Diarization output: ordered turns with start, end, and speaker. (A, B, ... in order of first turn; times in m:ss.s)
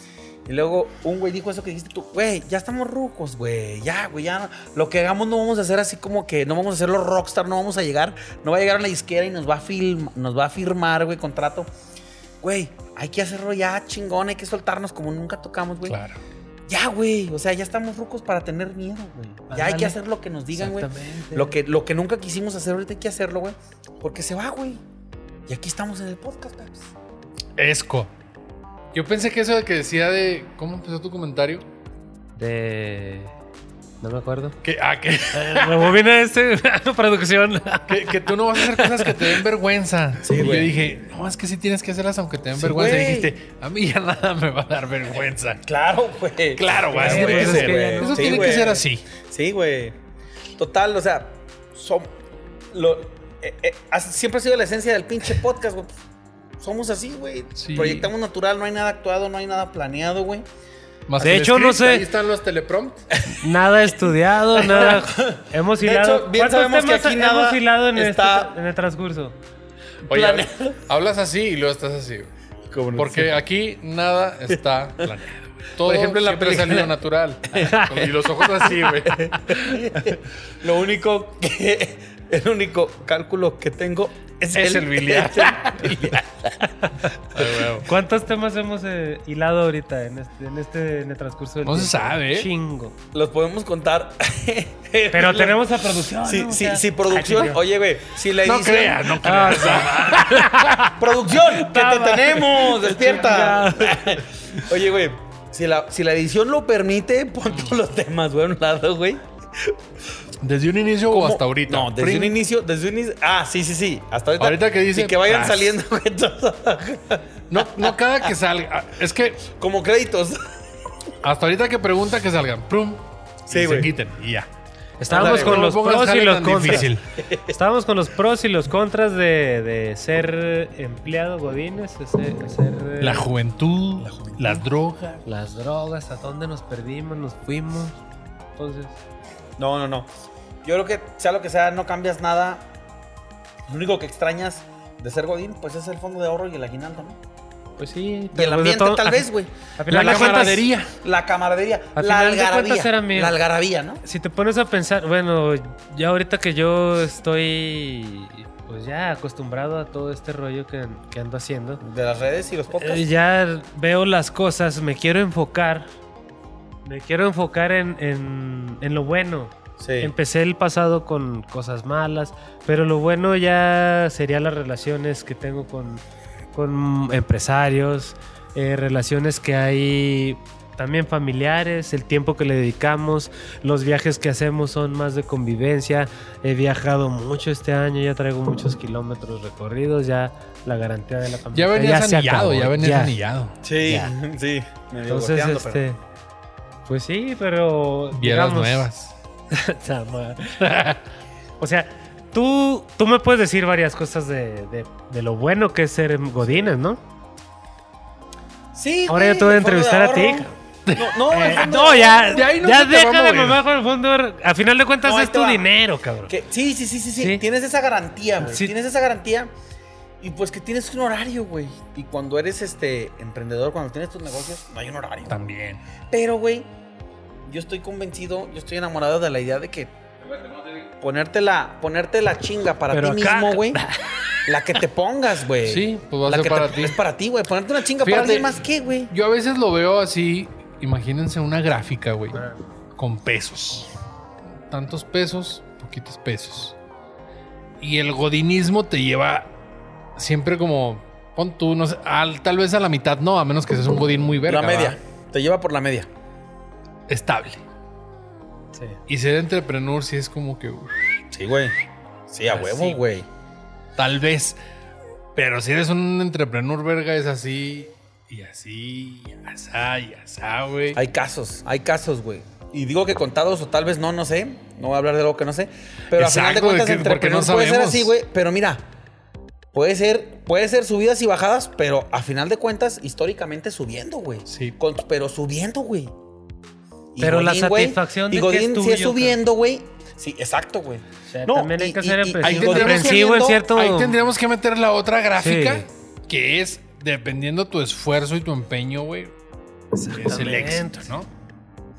0:00.4-0:11.7 A
0:12.4-0:16.0 A
0:15.8-0:16.2 B
0:16.7-0:24.8 A
0:19.5-0:20.0 C
0:20.5-0:21.6 C
0:25.5-0:26.9 A
0:27.6-0:28.1 B
0:28.9-0:31.6 B
0:32.4-0:33.3 C
0:34.0-0:34.6 C
0:34.6-0:36.0 B
0:35.3-0:39.4 C
0:37.9-0:45.6 B
0:40.2-0:40.8 A
0:42.5-0:43.3 A
0:45.6-0:50.0 A
0:46.5-0:49.0 B
0:46.9-0:48.6 C
0:50.6-0:52.1 A
0:52.7-0:55.9 A
0:56.6-1:00.4 A
0:57.6-0:58.1 B
1:01.1-1:03.0 B
1:01.2-1:02.1 C
1:03.3-1:09.4 C
1:04.5-1:08.5 A
1:10.1-1:10.8 A
1:10.1-1:12.3 B
1:12.7-1:13.4 A
1:12.9-1:20.0 B
1:14.5-1:15.1 A
1:15.8-1:17.0 A
1:17.5-1:26.7 A
1:17.6-1:17.9 C
1:24.5-1:26.1 B
1:27.3-1:27.9 B
1:27.3-1:27.7 A
1:27.8-1:33.0 C
1:31.6-1:32.5 B
1:33.1-1:39.9 A
1:35.1-1:37.6 C
1:38.4-1:40.9 B
1:39.2-1:40.9 C
1:40.8-1:49.8 A
1:41.5-1:44.1 C
1:50.4-1:52.4 B
1:51.1-1:58.3 A
1:54.4-1:55.8 B
1:57.5-1:59.5 B
1:59.5-2:00.5 A
2:01.2-2:04.5 B
2:03.5-2:03.9 A
2:05.0-2:06.9 C
2:05.1-2:05.6 A
2:05.1-2:07.0 B
2:06.6-2:07.6 A
2:07.5-2:13.3 C
2:13.0-2:15.2 B
2:14.0-2:14.6 A
2:15.2-2:18.0 C
2:18.6-2:19.0 C
2:19.6-2:20.1 A
2:20.6-2:22.6 A
2:23.7-2:27.2 A
2:27.8-2:30.6 C
2:28.3-2:34.0 A
2:29.9-2:30.9 B
2:32.0-2:33.4 C
2:34.0-2:41.8 C
2:41.8-2:43.0 A
2:42.8-2:45.9 C
2:46.8-2:56.0 C
2:49.8-2:50.1 A
2:56.5-3:13.1 C
3:11.5-3:13.6 B
3:13.6-3:15.8 A
3:13.8-3:14.1 C
3:15.1-3:16.0 C
3:16.8-3:18.9 C
3:18.1-3:19.1 B
3:19.5-3:20.7 C
3:20.6-3:21.0 B
3:21.6-3:27.0 C
3:28.7-3:32.5 A
3:29.1-3:30.5 C
3:30.9-3:31.6 B
3:31.3-3:36.3 C
3:32.3-3:33.6 B
3:35.0-3:35.7 A
3:36.3-3:39.5 A
3:37.2-3:37.4 C
3:38.4-3:38.7 C
3:40.2-3:45.4 A
3:45.3-3:45.8 B
3:46.1-3:46.7 A
3:47.4-3:49.9 A
3:50.8-3:53.8 A
3:52.9-3:54.2 C
3:54.4-3:59.1 A
3:55.6-3:57.0 B
3:58.0-4:02.4 B
4:02.3-4:02.6 C
4:03.0-4:03.9 B
4:04.7-4:06.7 B
4:07.8-4:09.5 B
4:10.2-4:14.9 B
4:14.4-4:16.1 A
4:17.1-4:17.6 B
4:18.7-4:19.0 C
4:19.1-4:21.2 B
4:21.3-4:21.8 A
4:22.3-4:23.3 A
4:22.5-4:23.0 B
4:24.0-4:24.6 B
4:25.4-4:31.0 B
4:30.9-4:38.8 A
4:36.1-4:38.1 B
4:39.7-4:46.1 A
4:44.5-4:44.7 B
4:47.1-4:53.6 A
4:47.2-4:49.4 C
4:51.3-4:54.2 C
4:52.4-4:59.3 B
4:55.4-4:55.8 C
4:59.9-5:01.1 C
5:00.1-5:01.3 B